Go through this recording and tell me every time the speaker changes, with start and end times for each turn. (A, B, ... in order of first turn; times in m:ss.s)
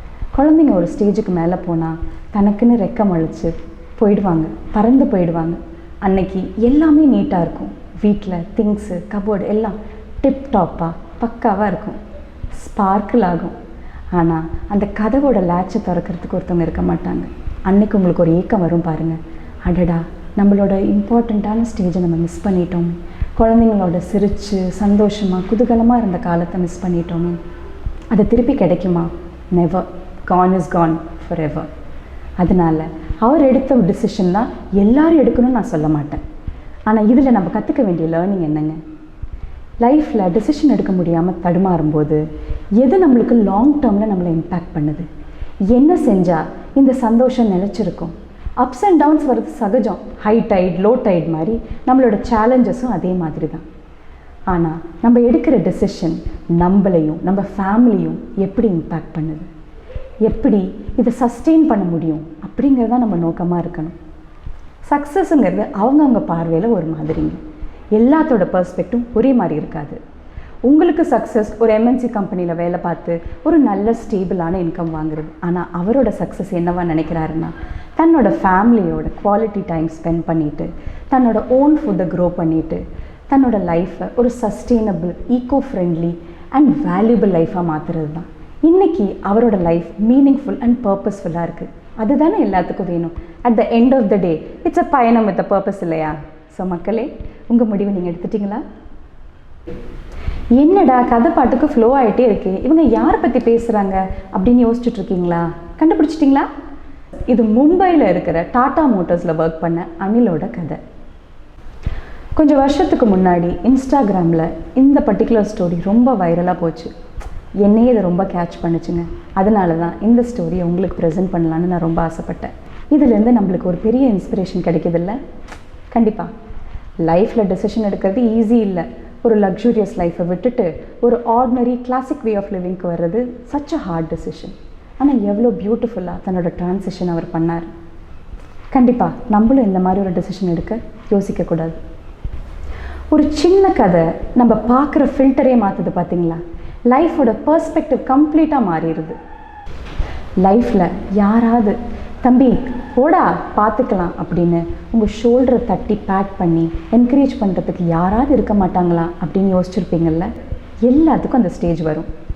0:00.3-0:12.0 A
0:12.6-0:13.5 A
0:14.1-0:27.4 A
0:28.1-0:31.7 A
0:32.4-0:36.2 A
0:36.9-0:38.8 A
0:39.8-0:42.2 A
0:42.8-0:45.1 A
0:45.7-0:53.6 A
0:54.5-0:59.5 A
1:00.2-1:03.9 A
1:04.8-1:07.4 A
1:07.9-1:10.0 A
1:10.6-1:38.6 A
1:40.6-1:46.5 A
1:47.3-1:50.8 A
1:52.4-1:56.9 A
1:57.6-2:05.2 A
2:05.9-2:06.3 A
2:07.0-2:17.7 A
2:18.7-2:21.8 A
2:23.1-2:29.2 A
2:30.4-2:40.3 A
2:40.8-2:42.1 A